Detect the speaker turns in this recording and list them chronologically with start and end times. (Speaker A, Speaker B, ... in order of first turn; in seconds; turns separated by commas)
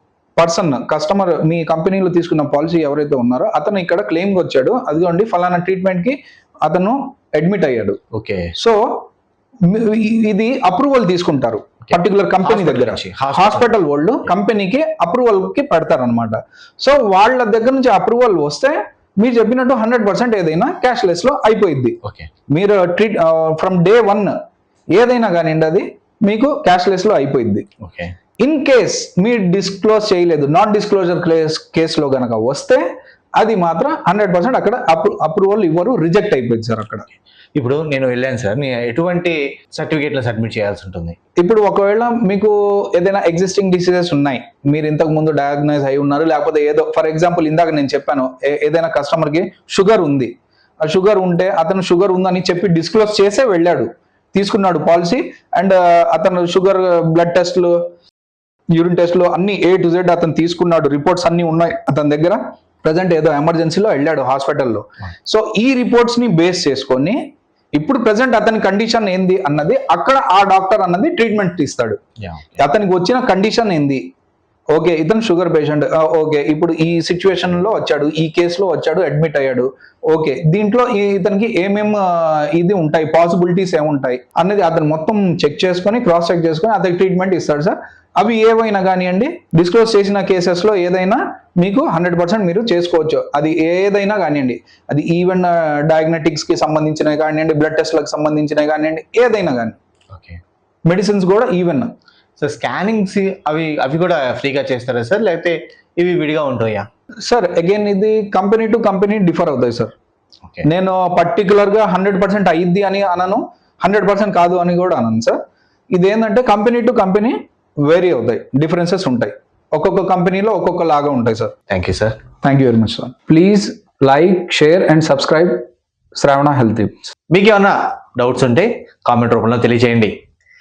Speaker A: 0.4-8.0, Speaker B: 8.1-8.5, Speaker A: 8.6-9.0, Speaker A: 9.7-22.0, Speaker B: 12.4-13.7, Speaker B: 22.0-22.3, Speaker A: 22.5-24.3, Speaker A: 24.9-27.7, Speaker B: 27.8-28.1, Speaker A: 28.4-32.8, Speaker A: 33.4-37.1, Speaker B: 37.5-41.1, Speaker A: 41.4-50.3, Speaker A: 50.8-57.7, Speaker A: 58.7-67.2, Speaker A: 67.7-72.0, Speaker B: 72.2-72.6, Speaker A: 72.6-74.0, Speaker A: 74.7-99.8, Speaker B: 100.1-100.4, Speaker A: 100.9-101.9, Speaker B: 102.4-106.9, Speaker A: 107.2-109.9, Speaker A: 110.6-115.4, Speaker A: 115.9-121.5, Speaker B: 121.7-122.2, Speaker A: 122.4-125.6, Speaker A: 126.2-127.1, Speaker B: 127.3-130.2